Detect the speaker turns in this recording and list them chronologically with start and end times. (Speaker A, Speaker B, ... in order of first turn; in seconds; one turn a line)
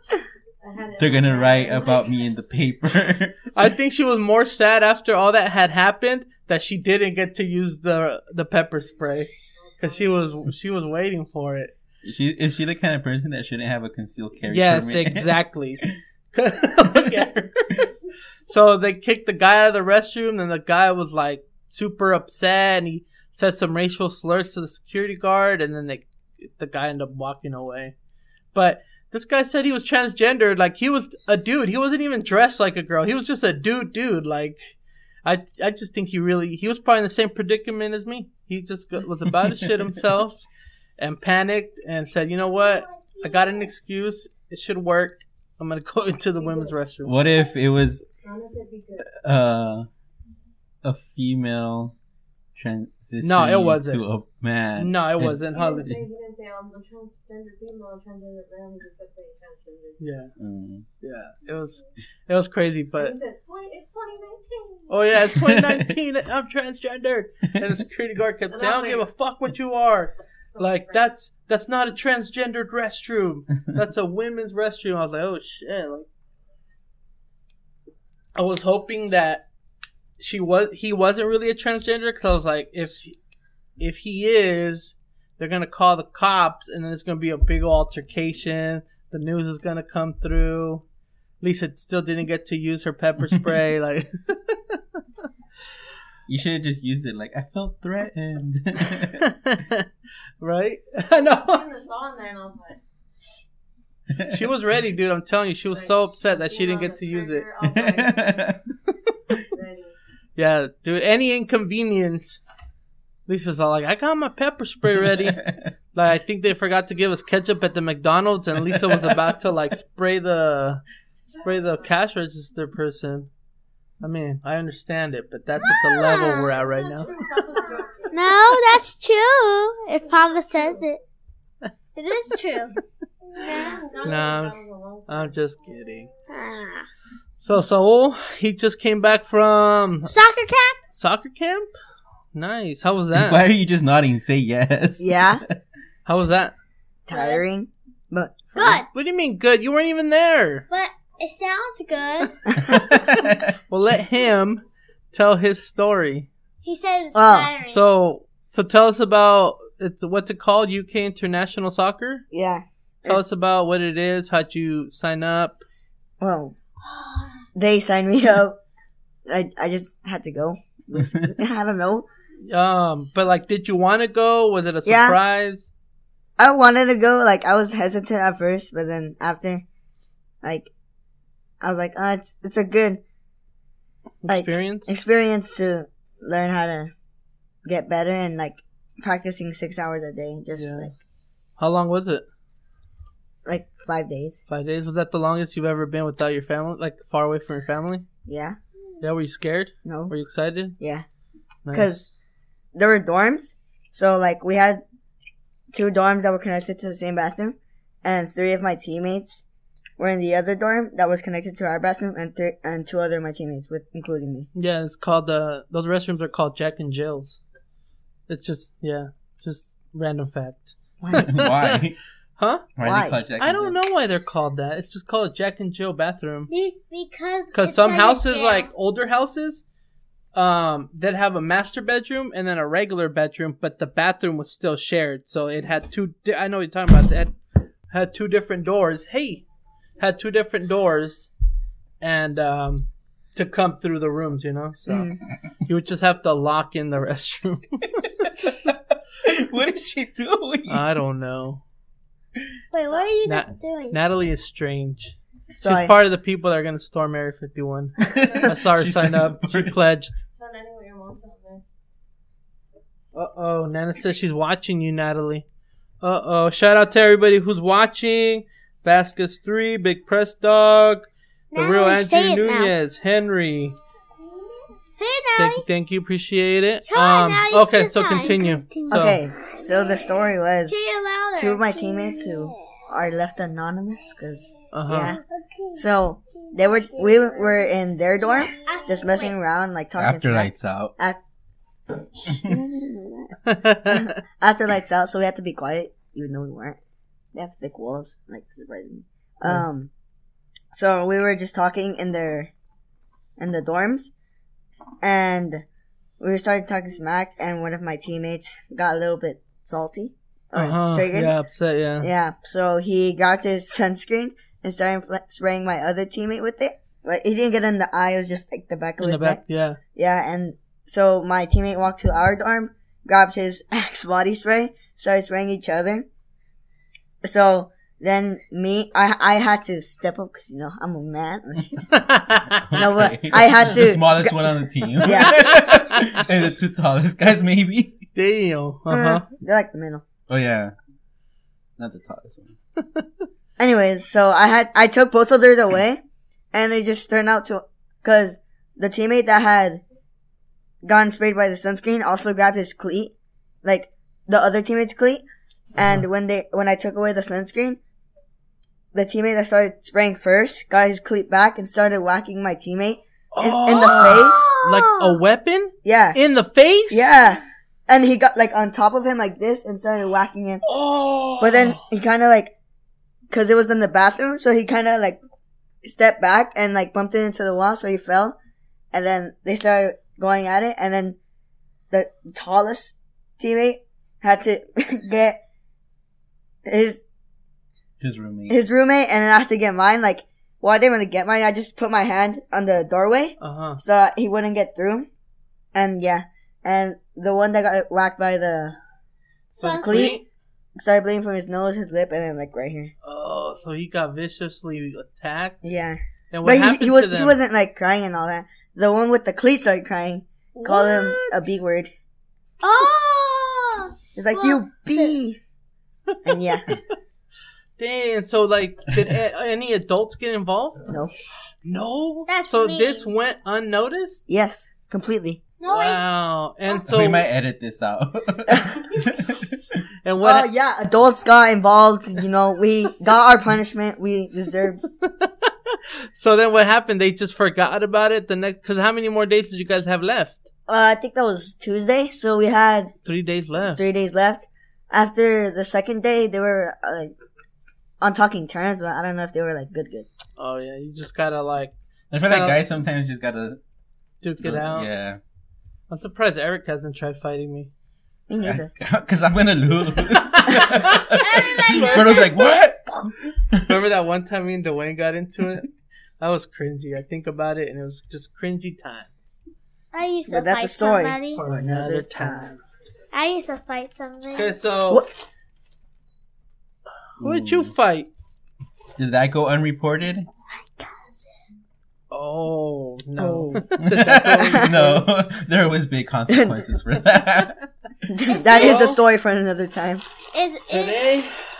Speaker A: 0.6-2.2
Speaker B: 1.0-3.4
Speaker C: 3.5-11.7
Speaker A: 9.6-10.4
Speaker B: 12.0-16.0
Speaker C: 14.5-17.6
Speaker B: 16.9-17.3
Speaker C: 18.5-27.9
Speaker C: 28.5-40.4
Speaker C: 41.0-47.1
Speaker D: 42.9-43.2
Speaker A: 46.4-46.8
Speaker B: 47.0-48.0
Speaker A: 48.2-49.0
Speaker B: 49.1-49.9
Speaker B: 50.8-51.9
Speaker B: 52.5-55.9
Speaker C: 53.2-54.0
Speaker C: 54.8-56.0
Speaker A: 55.5-60.0
Speaker C: 60.0-60.3
Speaker B: 60.4-60.9
Speaker C: 61.0-63.2
Speaker A: 62.9-64.9
Speaker C: 64.9-76.1
Speaker B: 65.3-65.9
Speaker A: 68.5-69.1
Speaker A: 70.5-71.1
Speaker C: 78.3-79.4
Speaker C: 80.2-83.2
Speaker C: 83.8-90.8
Speaker C: 91.4-94.8
Speaker B: 96.3-99.3
Speaker C: 99.2-99.8
Speaker C: 100.4-101.7
Speaker A: 101.2-102.8
Speaker B: 104.1-104.4
Speaker C: 104.3-107.5
Speaker A: 105.7-108.3
Speaker B: 107.6-108.6
Speaker A: 109.5-109.9
Speaker C: 110.3-112.4
Speaker C: 113.3-115.4
Speaker B: 115.1-115.7
Speaker C: 115.9-120.8
Speaker B: 118.7-119.2
Speaker C: 121.4-123.3
Speaker C: 124.0-127.6
Speaker D: 125.7-126.5
Speaker A: 126.3-128.4
Speaker D: 128.1-131.0
Speaker D: 131.9-132.7
Speaker D: 133.3-134.1
Speaker A: 133.4-135.3
Speaker C: 134.0-134.6
Speaker C: 135.1-136.1
Speaker D: 136.3-136.9
Speaker C: 137.4-140.3
Speaker D: 140.1-140.8
Speaker C: 140.9-141.7
Speaker C: 142.3-143.4
Speaker B: 143.1-145.6
Speaker E: 145.0-145.4
Speaker C: 146.1-146.5
Speaker E: 147.1-148.8
Speaker D: 147.1-147.4
Speaker D: 148.5-148.9
Speaker C: 148.9-150.6
Speaker D: 150.7-152.4
Speaker B: 152.6-153.5
Speaker C: 153.7-156.3
Speaker D: 156.6-157.8
Speaker E: 157.1-157.5
Speaker C: 157.7-162.2
Speaker E: 162.3-163.2
Speaker C: 163.1-165.6
Speaker E: 166.2-166.5
Speaker E: 167.5-168.6
Speaker E: 169.2-172.1
Speaker B: 171.0-171.2
Speaker C: 172.4-175.7
Speaker E: 174.8-175.2
Speaker E: 176.4-179.6
Speaker E: 180.4-180.7
Speaker E: 181.6-183.0
Speaker C: 184.2-184.9
Speaker E: 184.3-186.9
Speaker E: 187.6-190.9
Speaker C: 190.5-190.9
Speaker C: 191.6-192.2
Speaker E: 193.4-194.4
Speaker C: 194.5-198.0
Speaker E: 198.2-198.6
Speaker C: 199.0-200.8
Speaker E: 199.8-200.1
Speaker E: 200.8-201.1
Speaker C: 201.6-202.1
Speaker E: 201.7-202.0
Speaker E: 202.7-204.8
Speaker E: 205.7-209.4
Speaker E: 210.0-214.5
Speaker C: 214.5-217.4
Speaker C: 218.3-221.8
Speaker B: 221.2-222.0
Speaker C: 222.4-222.7
Speaker B: 222.8-223.8
Speaker E: 222.8-223.2
Speaker C: 223.4-226.5
Speaker D: 226.5-228.7
Speaker C: 227.5-229.6
Speaker C: 230.3-237.3
Speaker C: 237.9-239.4
Speaker C: 240.0-241.3
Speaker C: 242.0-245.1
Speaker E: 244.9-245.2
Speaker C: 245.7-248.3
Speaker B: 248.4-250.8
Speaker C: 250.7-251.6
Speaker D: 252.7-254.0
Speaker C: 253.2-260.2
Speaker E: 255.5-255.9
Speaker B: 258.1-259.8
Speaker A: 260.3-261.6
Speaker C: 263.1-265.4
Speaker C: 266.0-273.8
Speaker D: 271.5-272.7
Speaker D: 274.9-275.6
Speaker C: 275.4-279.2
Speaker D: 276.9-282.6
Speaker E: 278.9-280.8
Speaker E: 281.4-285.2
Speaker C: 284.7-285.1
Speaker D: 285.0-285.8
Speaker E: 285.7-291.2
Speaker D: 286.4-287.3
Speaker D: 288.5-289.3
Speaker B: 290.0-290.9
Speaker E: 292.1-293.4
Speaker C: 293.4-294.2
Speaker E: 293.9-296.8
Speaker E: 297.3-299.9
Speaker E: 300.7-302.5
Speaker E: 303.4-304.1
Speaker E: 305.0-305.6
Speaker E: 306.2-311.3
Speaker C: 310.5-312.1
Speaker E: 312.0-319.4
Speaker C: 319.0-319.8
Speaker E: 319.9-326.1
Speaker E: 327.2-331.8
Speaker C: 331.9-332.6
Speaker B: 332.5-338.0
Speaker E: 332.7-334.4
Speaker E: 335.0-335.5
Speaker C: 335.2-336.0
Speaker C: 338.1-339.2
Speaker E: 338.9-340.0
Speaker B: 340.3-340.7
Speaker B: 341.8-342.6
Speaker E: 343.6-346.0
Speaker E: 346.5-349.8
Speaker E: 350.8-355.2
Speaker E: 355.8-357.8
Speaker E: 358.9-364.5
Speaker C: 363.3-367.1
Speaker D: 363.7-365.2
Speaker E: 365.8-366.2
Speaker E: 366.9-370.6
Speaker C: 370.6-371.9
Speaker E: 371.4-372.5
Speaker E: 373.3-375.2
Speaker E: 375.8-378.4
Speaker E: 378.9-381.2
Speaker E: 381.9-385.4
Speaker E: 386.6-387.0
Speaker B: 388.0-388.6
Speaker E: 388.5-395.1
Speaker C: 393.4-393.8
Speaker E: 395.7-398.8
Speaker D: 399.5-400.2
Speaker C: 399.6-400.2
Speaker E: 399.8-400.2
Speaker E: 400.8-402.9
Speaker C: 403.0-405.6
Speaker E: 405.6-411.9
Speaker C: 406.3-407.4
Speaker D: 410.6-411.4
Speaker D: 412.6-415.2
Speaker E: 414.1-415.4
Speaker C: 416.1-416.7
Speaker E: 416.2-416.6
Speaker C: 417.8-420.8
Speaker E: 420.9-421.1
Speaker C: 421.6-424.2
Speaker D: 422.3-423.1
Speaker E: 424.3-425.4
Speaker D: 425.6-426.0
Speaker C: 425.7-427.2
Speaker B: 426.8-429.5
Speaker E: 428.5-428.8
Speaker C: 430.0-430.5
Speaker E: 430.2-434.8
Speaker C: 435.0-440.5
Speaker E: 440.7-442.9
Speaker C: 443.0-443.8
Speaker E: 443.8-447.1
Speaker E: 448.0-450.1
Speaker C: 450.4-452.6
Speaker B: 452.1-453.6
Speaker C: 454.2-454.9
Speaker B: 454.4-455.2
Speaker C: 455.9-457.7
Speaker E: 458.3-458.7
Speaker B: 458.4-463.8
Speaker C: 460.4-462.2
Speaker D: 461.2-462.5
Speaker C: 463.6-465.7
Speaker C: 466.2-469.4
Speaker D: 469.9-471.4
Speaker E: 470.3-472.5
Speaker C: 471.3-472.6
Speaker D: 473.1-474.6
Speaker C: 474.3-475.0
Speaker C: 477.2-478.1
Speaker B: 477.2-477.7
Speaker B: 479.0-480.3
Speaker D: 480.5-481.1
Speaker C: 482.1-485.0
Speaker E: 483.2-483.6
Speaker B: 483.8-487.6
Speaker E: 486.3-486.6
Speaker E: 488.1-490.0
Speaker D: 488.3-488.8
Speaker C: 488.4-489.0
Speaker D: 490.3-491.0
Speaker C: 490.7-491.3